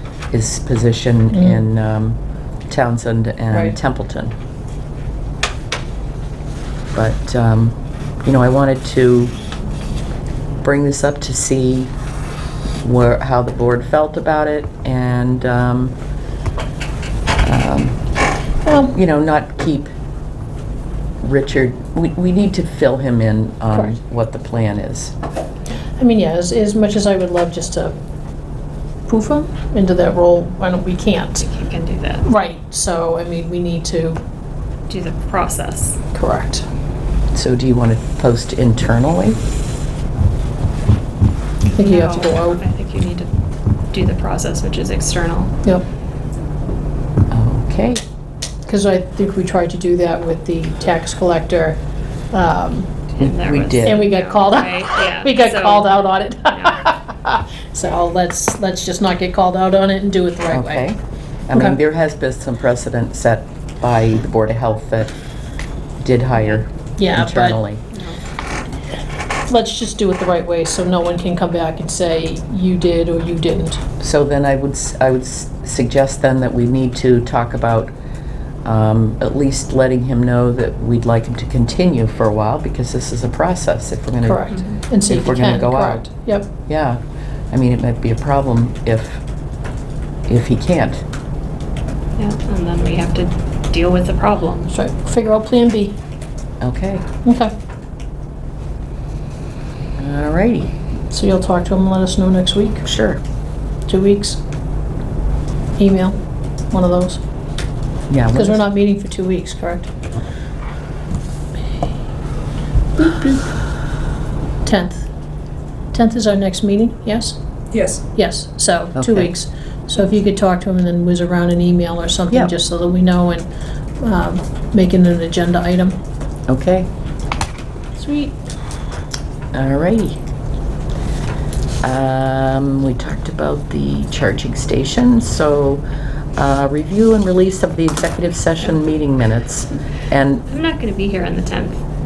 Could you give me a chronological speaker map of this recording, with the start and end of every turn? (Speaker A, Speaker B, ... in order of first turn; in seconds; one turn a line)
Speaker A: 0.3-4.3
Speaker B: 1.3-1.6
Speaker B: 3.5-3.8
Speaker A: 6.9-9.3
Speaker A: 10.6-11.9
Speaker A: 12.8-15.9
Speaker A: 17.4-18.0
Speaker B: 18.6-18.9
Speaker A: 18.7-19.9
Speaker A: 21.2-25.1
Speaker B: 26.0-27.9
Speaker B: 29.1-31.4
Speaker C: 31.4-32.2
Speaker B: 32.2-34.2
Speaker C: 34.9-36.0
Speaker B: 36.1-36.7
Speaker A: 37.3-39.4
Speaker B: 41.7-42.6
Speaker C: 41.8-43.3
Speaker C: 43.9-45.5
Speaker A: 47.3-48.0
Speaker B: 48.7-51.8
Speaker B: 52.3-53.1
Speaker C: 53.2-56.0
Speaker A: 53.2-54.0
Speaker B: 53.9-60.9
Speaker C: 56.5-56.8
Speaker A: 60.5-65.1
Speaker B: 61.5-61.8
Speaker A: 66.0-67.8
Speaker B: 67.0-67.6
Speaker C: 67.9-68.2
Speaker B: 69.5-73.8
Speaker A: 74.0-77.9
Speaker A: 78.6-84.5
Speaker B: 84.2-86.5
Speaker C: 84.5-84.8
Speaker A: 85.1-86.1
Speaker A: 86.7-87.0
Speaker A: 87.5-89.2
Speaker A: 90.3-91.0
Speaker C: 92.2-94.7
Speaker B: 94.7-96.0
Speaker A: 96.6-97.0
Speaker B: 97.2-97.5
Speaker A: 100.0-100.8
Speaker B: 101.1-102.8
Speaker A: 102.8-103.2
Speaker B: 103.9-104.4
Speaker B: 105.8-106.2
Speaker B: 106.7-107.2
Speaker A: 108.1-108.6
Speaker B: 108.3-109.9
Speaker B: 113.0-113.4
Speaker B: 114.7-115.1
Speaker B: 115.9-117.4
Speaker B: 118.0-123.5
Speaker A: 119.0-119.3
Speaker B: 124.0-126.0
Speaker A: 126.5-126.9
Speaker B: 128.0-128.4
Speaker A: 129.5-130.2
Speaker A: 131.8-135.8
Speaker A: 136.4-140.4
Speaker C: 140.5-141.8